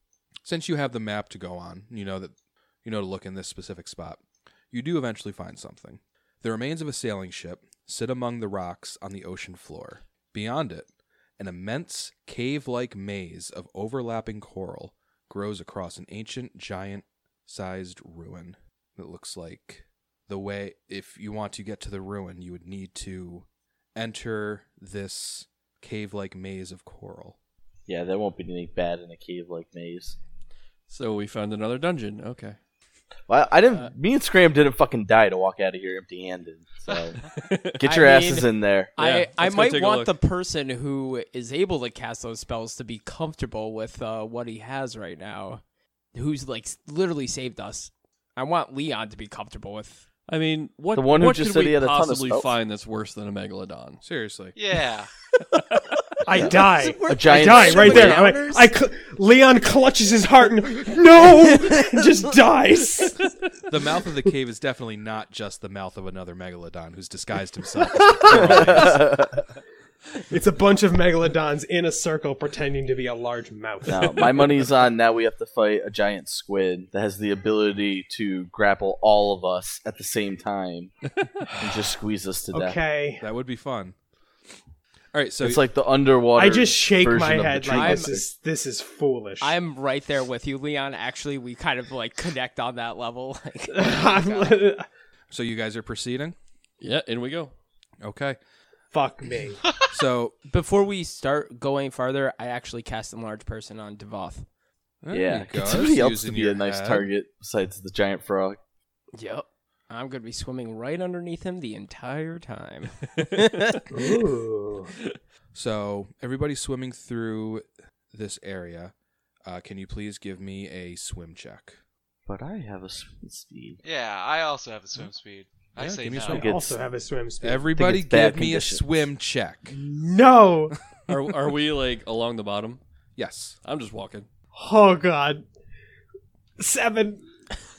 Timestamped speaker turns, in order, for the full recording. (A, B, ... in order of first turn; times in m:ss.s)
0:00.4-0:27.4 A
0:27.9-0:30.2 B
0:30.9-0:32.6 C
0:33.3-0:37.2 B
0:37.4-0:37.7 C
0:37.8-0:38.9 B
0:37.8-0:45.6 D
0:39.0-0:40.1 C
0:46.1-0:50.1 D
0:50.3-0:54.0 C
0:50.9-0:52.5 B
0:54.0-0:54.6 A
0:54.6-0:55.1 E
0:56.3-1:03.2 F
0:56.3-0:58.4 B
0:56.4-0:58.7 D
1:03.7-1:09.0 A
1:08.0-1:08.8 F
1:08.3-1:09.4 B
1:10.3-1:14.4 F
1:13.9-1:20.9 B
1:21.6-1:22.8 B
1:22.5-1:23.3 F
1:23.2-1:24.0 A
1:25.1-1:25.6 A
1:25.4-1:28.2 B
1:26.4-1:29.6 F
1:27.7-1:28.2 D
1:29.4-1:34.6 D
1:33.7-1:34.9 F
1:35.3-1:36.4 A
1:36.8-1:37.5 C
1:38.0-1:38.4 A
1:38.9-1:39.6 F
1:39.9-1:40.4 A
1:40.5-1:44.5 D
1:45.0-1:47.1 A
1:45.1-1:48.6 B
1:49.2-1:53.8 D
1:53.9-1:54.9 F
1:55.5-1:58.9 A
1:59.4-2:01.8 A
2:02.3-2:03.8 B
2:03.8-2:06.5 E
2:05.8-2:06.5 A
2:06.2-2:06.8 B
2:06.4-2:07.7 F
2:07.4-2:09.8 A
2:07.7-2:08.8 B
2:09.7-2:10.8 F
2:11.1-2:12.8 C
2:13.2-2:13.6 A
2:13.6-2:14.3 C
2:14.5-2:15.4 F
2:16.6-2:17.2 F